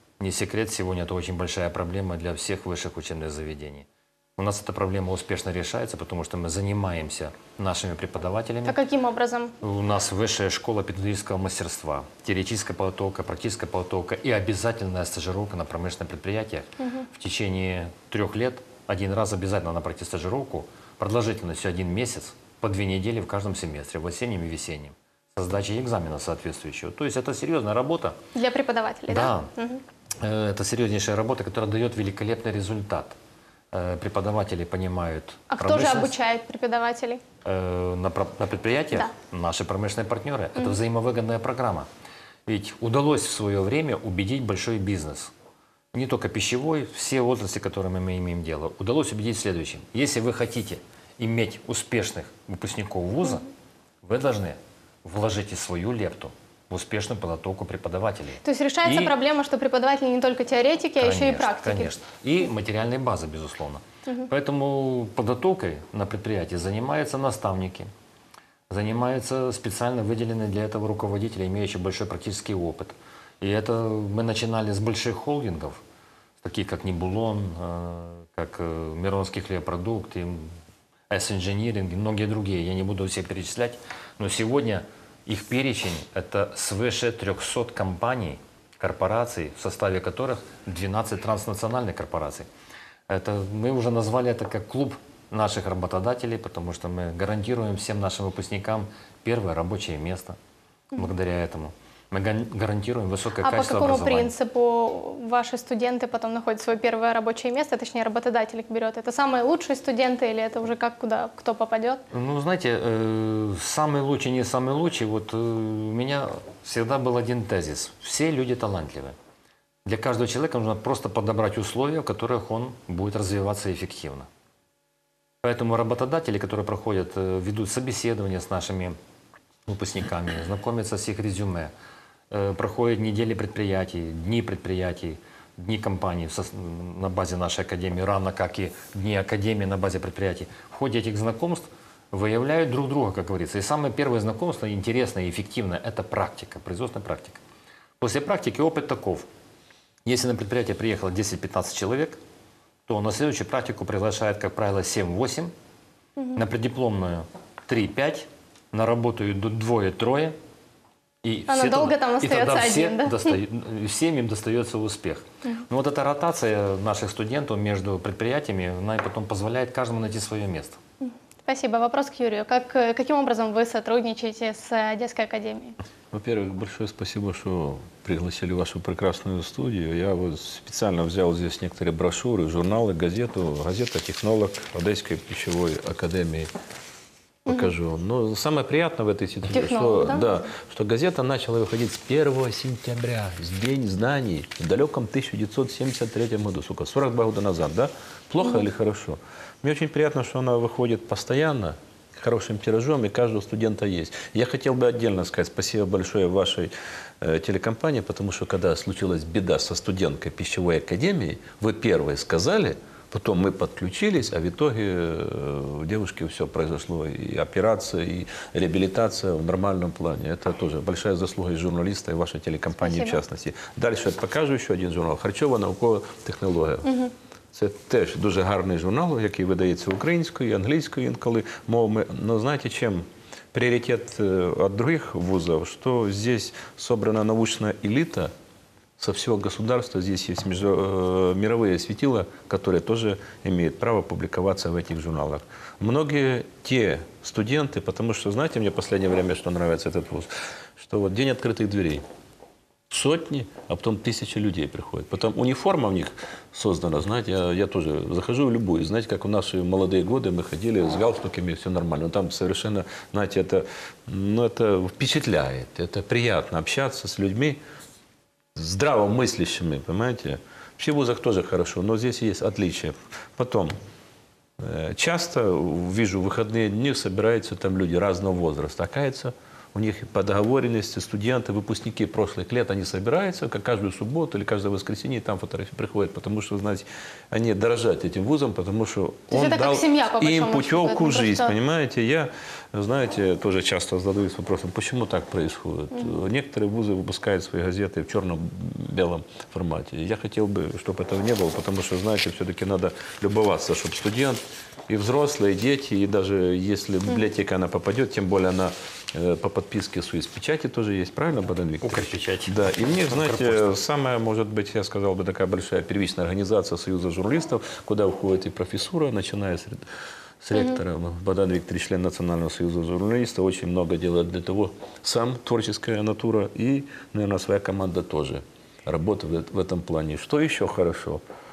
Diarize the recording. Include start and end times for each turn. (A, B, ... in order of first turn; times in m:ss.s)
0:00.2-0:08.8 A
0:08.6-0:09.6 B
0:09.6-0:28.2 A
0:16.8-0:17.1 B
0:28.3-0:29.8 B
0:29.1-0:29.5 A
0:30.2-0:33.2 A
0:33.7-0:36.1 A
0:35.5-0:37.2 B
0:37.4-0:41.9 A
0:42.5-0:45.3 A
0:45.9-0:53.4 A
0:54.0-0:59.1 A
0:58.4-1:01.9 B
1:01.0-1:07.9 A
1:08.7-1:15.8 A
1:16.4-1:20.5 A
1:21.1-1:32.5 A
1:33.1-1:40.4 A
1:40.9-1:44.3 A
1:43.4-1:52.0 B
1:52.1-1:59.1 A
1:59.8-2:04.3 A
2:05.4-2:09.0 A
2:09.7-2:11.7 A
2:12.3-2:27.4 A
2:28.0-2:29.2 A
2:30.0-2:32.2 A
2:32.9-2:35.5 A
2:36.3-2:40.3 A
2:41.2-2:50.8 A
2:41.5-2:43.4 B
2:51.0-2:55.8 B
2:56.1-3:06.5 C
3:07.4-3:46.9 C
3:07.5-3:07.7 B
3:09.5-3:10.3 B
3:42.8-3:43.2 B
3:46.8-3:47.1 B
3:47.5-3:58.3 C
3:59.0-4:12.0 C
4:12.9-4:27.6 C
4:28.5-4:33.7 C
4:34.6-5:19.8 C
4:49.3-4:51.5 B
5:11.8-5:13.7 A
5:20.4-5:31.2 C